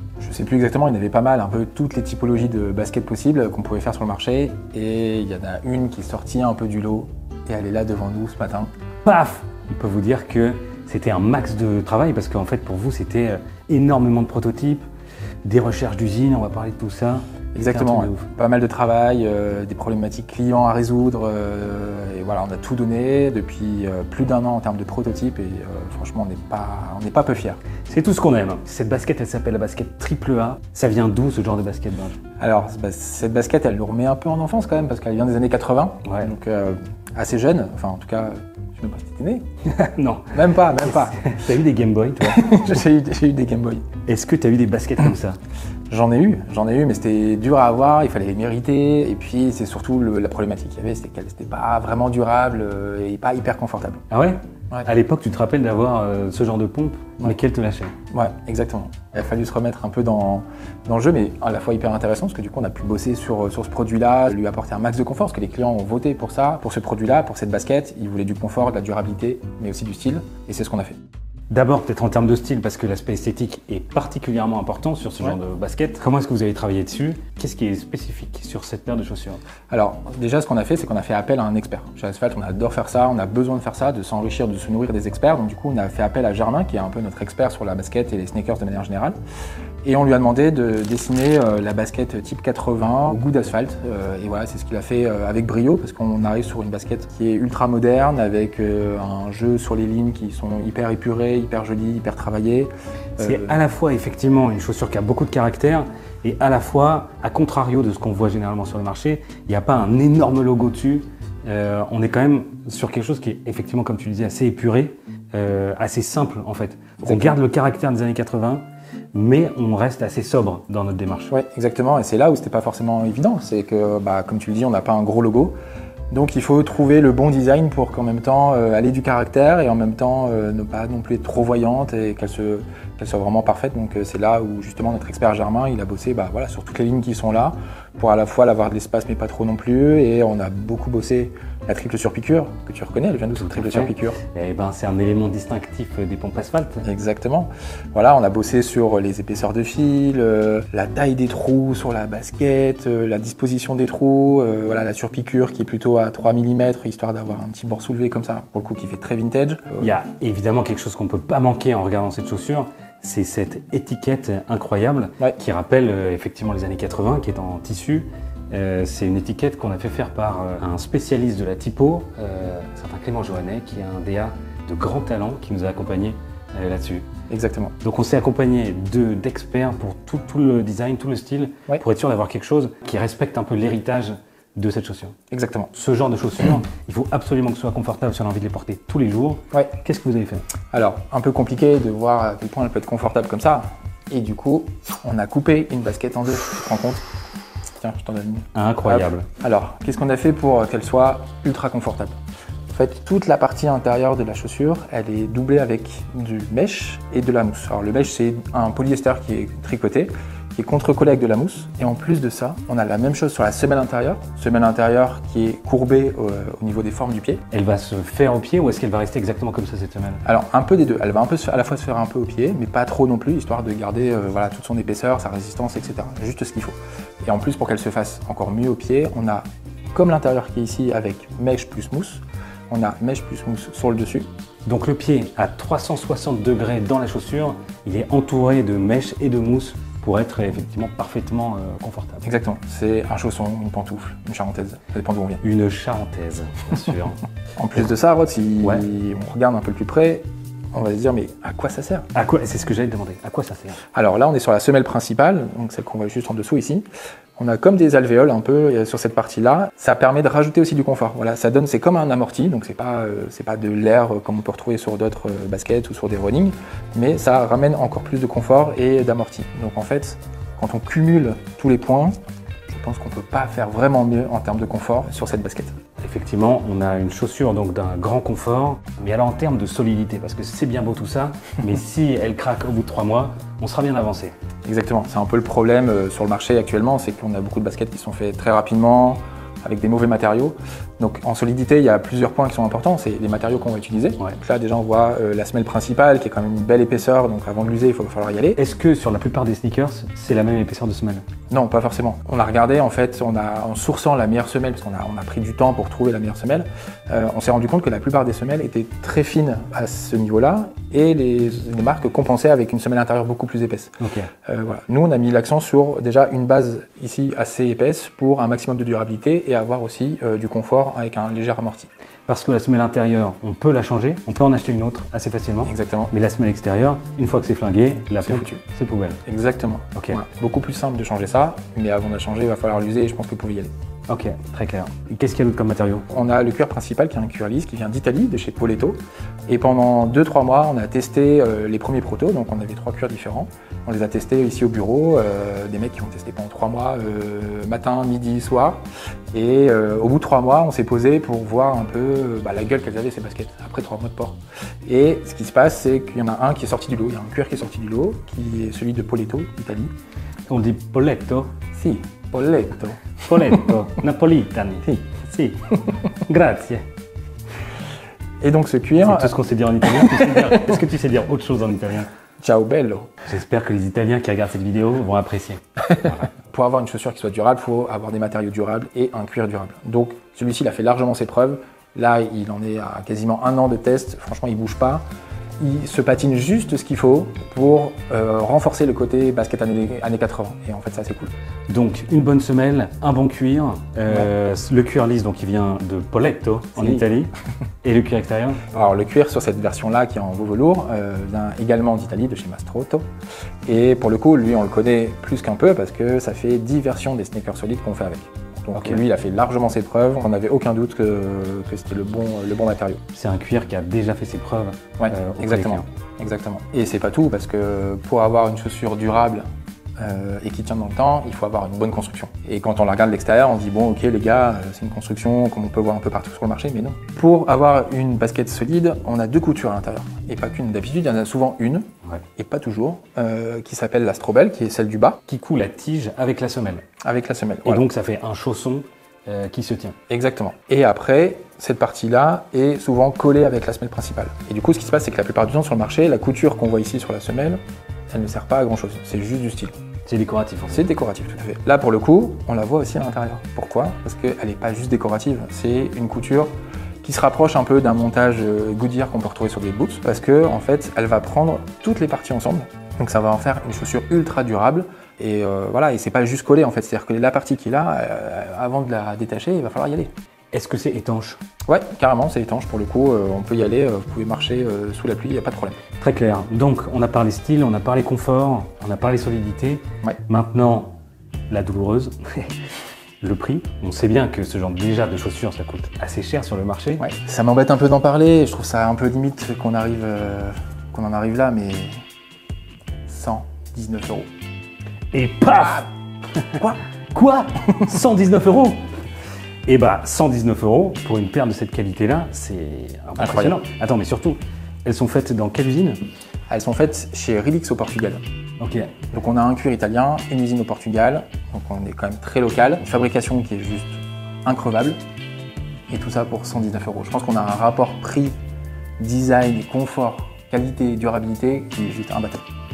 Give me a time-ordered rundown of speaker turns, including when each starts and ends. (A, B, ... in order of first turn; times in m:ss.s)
0:00.2-0:08.7 A
0:09.0-0:14.8 B
0:15.4-0:18.3 B
0:17.6-0:27.6 A
0:27.9-0:32.2 B
0:32.4-0:39.4 A
0:39.7-0:42.5 B
0:40.3-0:41.4 A
0:42.2-0:43.8 A
0:44.0-0:45.4 B
0:45.9-0:54.0 A
0:54.1-0:58.0 B
0:58.1-1:11.0 A
1:11.5-1:19.4 B
1:19.7-1:29.2 A
1:29.8-1:43.6 A
1:43.2-2:01.3 B
1:57.0-1:57.4 A
2:01.3-2:05.5 A
2:06.1-2:24.2 A
2:23.4-2:26.9 B
2:26.8-2:39.9 A
2:39.8-2:57.1 B
2:57.3-2:57.8 A
2:57.8-3:05.2 B
3:05.3-3:05.7 A
3:05.7-3:10.4 B
3:10.7-3:17.0 A
3:17.8-3:22.2 A
3:18.6-3:19.3 B
3:22.7-3:37.4 A
3:37.5-3:40.2 B
3:40.2-3:54.3 A
3:54.7-4:02.3 B
4:02.2-4:05.4 A
4:05.4-4:07.2 B
4:07.6-4:12.1 A
4:12.1-4:13.8 B
4:13.9-4:16.9 A
4:17.4-4:32.2 A
4:32.7-4:35.8 A
4:36.0-4:44.4 B
4:44.6-4:58.6 A
4:58.6-5:01.2 B
5:01.5-5:21.9 A
5:14.0-5:14.3 B
5:22.3-5:29.2 B
5:25.6-5:26.1 A
5:28.2-5:28.6 A
5:29.3-5:33.7 A
5:34.1-5:36.1 B
5:36.1-5:48.8 A
5:49.3-5:59.9 A
6:00.5-6:01.5 B
6:01.8-6:03.6 A
6:03.2-6:06.9 B
6:08.4-6:10.6 A
6:09.0-6:12.1 B
6:12.4-6:13.1 A
6:13.3-6:16.3 B
6:16.3-6:25.0 A
6:25.6-6:31.3 A
6:31.7-6:37.3 B
6:36.8-6:37.0 A
6:37.8-6:38.6 B
6:38.7-6:43.0 A
6:43.7-6:53.0 A
6:48.7-6:49.0 B
6:53.1-6:55.8 B
6:55.0-6:59.4 A
7:00.0-7:11.8 A
7:12.4-7:15.2 A
7:15.3-7:16.8 B
7:17.0-7:17.9 A
7:17.6-7:20.0 B
7:20.1-7:27.6 A
7:28.1-7:29.8 A
7:30.1-7:30.8 B
7:30.7-7:36.5 A
7:37.0-7:50.1 A
7:50.5-7:51.4 B
7:51.7-7:55.8 A
7:56.0-8:01.0 B
8:01.5-8:02.5 B
8:03.2-8:07.0 B
8:07.0-8:12.0 A
8:13.1-8:14.3 A
8:15.1-8:18.8 B
8:19.7-8:26.0 B
8:23.2-8:23.6 A
8:26.5-8:28.2 A
8:28.6-8:28.9 B
8:29.1-8:35.0 A
8:35.9-8:38.3 A
8:39.0-8:42.5 A